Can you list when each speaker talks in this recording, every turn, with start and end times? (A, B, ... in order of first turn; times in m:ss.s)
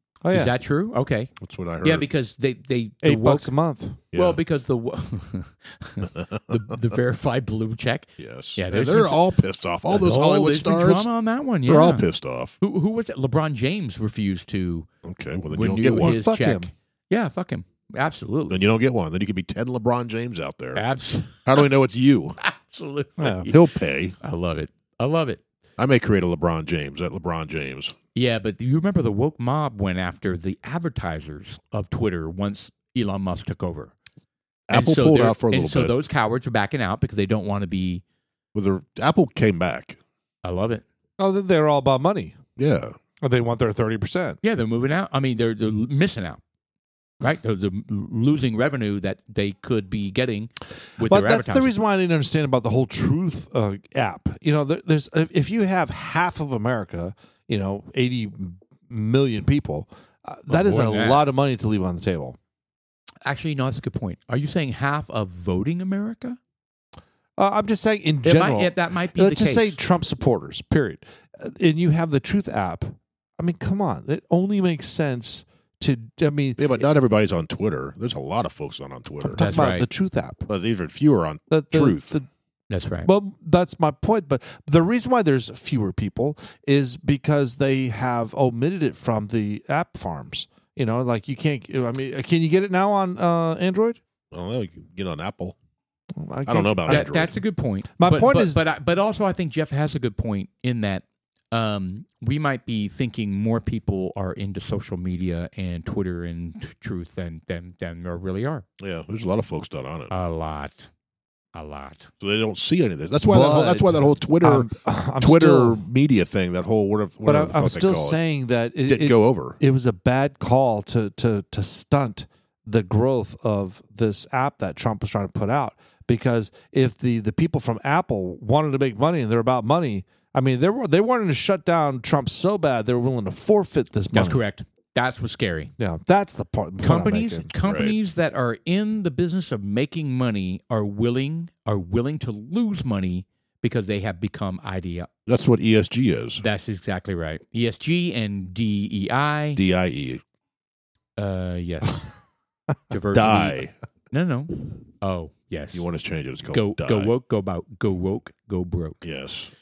0:00.2-0:00.5 A
0:00.3-0:01.3 B
0:01.4-0:02.1 C
0:01.8-0:03.5 B
0:03.0-0:04.0 A
0:04.1-0:09.2 B
0:04.1-0:04.4 C
0:06.2-0:06.4 C
0:08.2-0:11.1 C
0:09.9-0:12.1 B
0:11.7-0:12.6 C
0:12.6-0:14.9 B
0:15.0-0:16.2 C
0:15.5-0:18.6 B
0:15.9-0:16.7 A
0:18.5-0:20.8 C
0:20.8-0:21.7 B
0:21.4-0:22.4 C
0:22.4-0:23.6 B
0:23.2-0:23.5 A
0:23.5-0:24.2 C
0:24.2-0:25.4 B
0:25.8-0:28.0 C
0:28.2-0:33.9 B
0:34.7-0:35.9 C
0:34.7-0:38.0 B
0:38.6-0:40.0 C
0:40.4-0:40.8 B
0:41.2-0:42.4 A
0:42.6-0:43.0 C
0:43.2-0:44.4 A
0:44.4-0:46.4 B
0:47.2-0:51.7 B
0:51.0-1:02.4 A
1:00.5-1:01.3 B
1:03.3-1:06.4 B
1:07.4-1:16.9 A
1:08.2-1:09.8 B
1:16.6-1:19.5 C
1:19.2-1:20.5 A
1:19.4-1:19.8 B
1:20.5-1:22.2 C
1:21.5-1:22.3 A
1:22.7-1:23.1 B
1:23.0-1:34.0 A
1:34.3-1:35.6 C
1:36.1-1:37.2 A
1:36.5-1:37.4 C
1:36.9-1:48.6 B
1:38.0-1:38.6 A
1:48.8-1:50.1 C
1:50.1-1:50.9 B
1:51.6-1:52.1 B
1:52.2-1:58.2 C
1:53.2-1:55.8 A
1:57.3-2:14.4 A
1:58.9-1:59.6 C
2:14.1-2:15.7 B
2:15.8-2:17.5 A
2:16.8-2:25.1 B
2:17.6-2:18.0 C
2:25.3-2:26.4 C
2:26.4-2:29.6 B
2:29.6-2:30.2 C
2:31.2-2:32.0 B
2:32.9-2:33.6 B
2:33.1-2:33.7 C
2:34.1-2:35.8 B
2:35.7-2:37.1 C
2:36.5-2:39.0 B
2:39.0-2:39.5 C